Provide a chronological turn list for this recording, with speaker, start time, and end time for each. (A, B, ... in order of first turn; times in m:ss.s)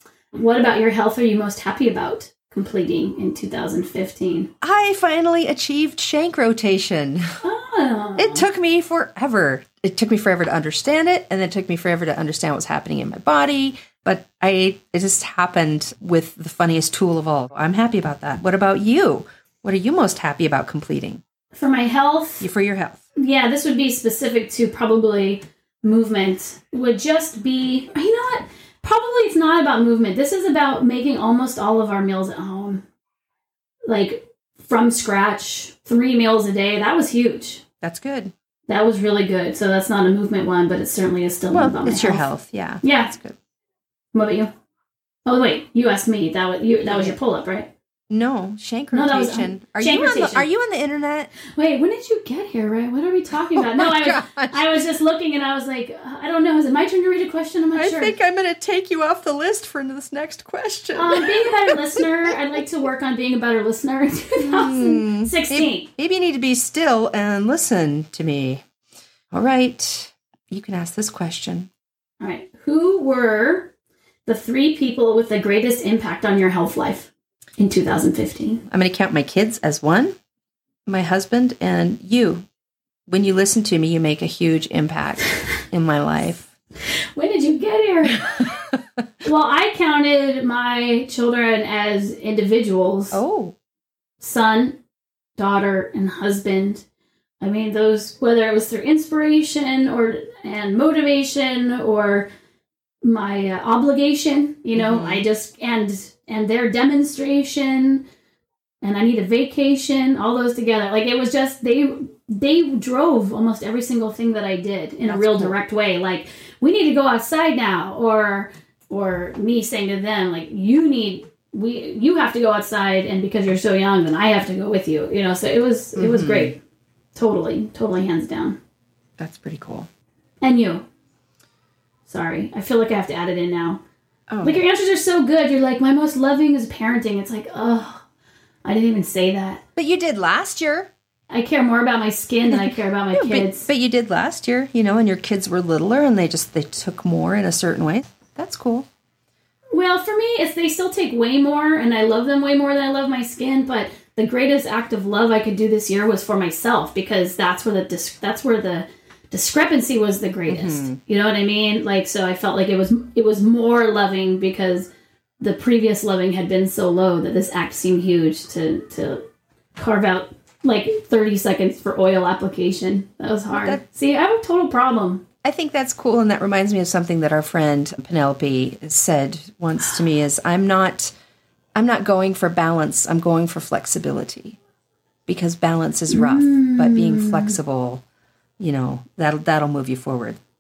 0:00.3-0:04.5 A
0:04.6-0:07.4 B
0:07.4-0:08.5 A
0:08.2-0:21.2 B
0:21.5-0:22.5 A
0:22.4-0:23.0 B
0:23.2-0:32.8 A
0:33.9-0:37.6 A
0:37.8-0:38.3 B
0:38.7-0:42.3 A
0:41.5-0:43.4 B
0:42.8-0:43.1 A
0:44.1-0:44.5 A
0:45.3-0:47.7 A
0:46.8-0:47.2 B
0:48.1-0:51.3 B
0:48.9-0:50.5 A
0:51.5-0:58.1 A
0:53.6-0:54.8 B
0:57.8-1:02.3 B
1:01.0-1:05.9 A
1:04.4-1:08.6 B
1:09.3-1:11.7 B
1:12.2-1:13.7 A
1:14.3-1:18.6 A
1:18.7-1:20.2 B
1:20.9-1:22.4 B
1:23.1-1:26.5 B
1:27.2-1:28.3 A
1:28.3-1:29.0 B
1:29.2-1:33.2 A
1:33.1-1:33.6 B
1:34.2-1:34.8 A
1:35.4-1:36.8 A
1:37.4-1:42.3 A
1:43.0-1:48.0 A
1:44.8-1:45.2 B
1:48.8-2:06.6 A
1:55.1-1:55.6 B
2:06.0-2:06.5 B
2:07.2-2:08.6 A
2:09.2-2:09.9 B
2:10.4-2:10.9 A
2:12.1-2:13.8 A
2:14.3-2:14.6 B
2:14.4-2:18.0 A
2:18.6-2:19.6 A
2:19.8-2:20.9 B
2:21.3-2:23.7 A
2:22.5-2:28.9 B
2:29.7-2:44.9 A
2:40.5-2:41.0 B
2:45.4-2:49.2 A
2:49.8-2:55.2 A
2:53.5-2:53.8 B
2:55.4-3:01.1 B
3:01.8-3:04.6 B
3:05.3-3:08.0 B
3:06.1-3:07.6 A
3:08.6-3:10.4 B